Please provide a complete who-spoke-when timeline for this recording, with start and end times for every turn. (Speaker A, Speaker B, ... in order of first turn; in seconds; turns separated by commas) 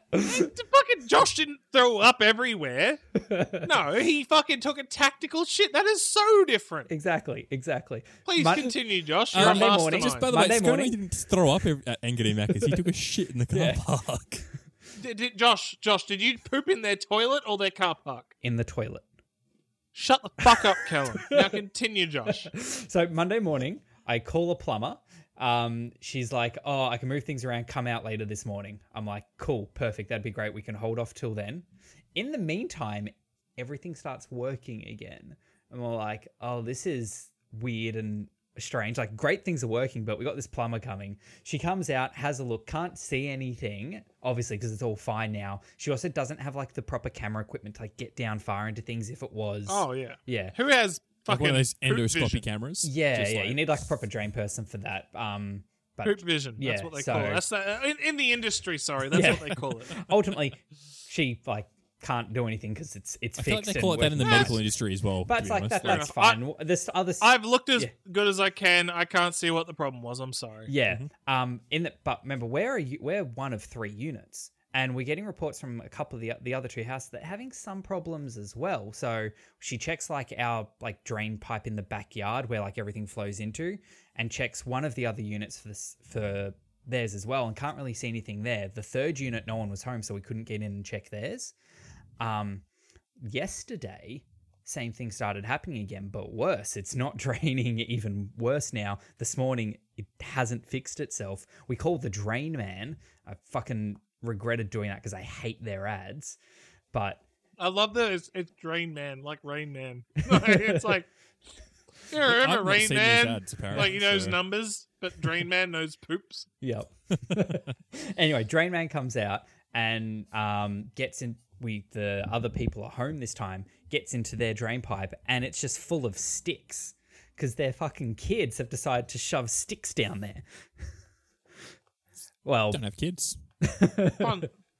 Speaker A: 0.1-0.5, Speaker B: 0.2-3.0, Speaker A: 3.2-3.7, Speaker B: 3.6-6.9, Speaker A: 6.9-8.8, Speaker B: 8.2-10.3, Speaker A: 9.3-11.0, Speaker C: 9.3-14.4, Speaker A: 13.5-13.8, Speaker B: 15.0-18.3, Speaker A: 18.4-19.1, Speaker B: 19.9-22.5, Speaker A: 20.4-21.6, Speaker A: 22.3-50.5, Speaker B: 49.7-52.5, Speaker C: 51.3-53.7, Speaker A: 52.8-57.4, Speaker B: 56.0-60.0, Speaker A: 59.1-64.7, Speaker C: 63.4-66.1, Speaker B: 64.2-64.5, Speaker A: 65.2-67.9, Speaker B: 65.8-66.4, Speaker B: 67.2-70.7, Speaker A: 70.7-91.5, Speaker A: 92.2-92.6, Speaker A: 93.2-106.4, Speaker A: 106.9-107.2, Speaker B: 107.6-111.1, Speaker A: 110.3-110.8, Speaker B: 112.1-116.5, Speaker C: 112.3-114.4, Speaker A: 116.6-130.4, Speaker A: 132.4-132.8, Speaker C: 132.7-133.4, Speaker A: 133.6-134.4, Speaker B: 134.2-134.5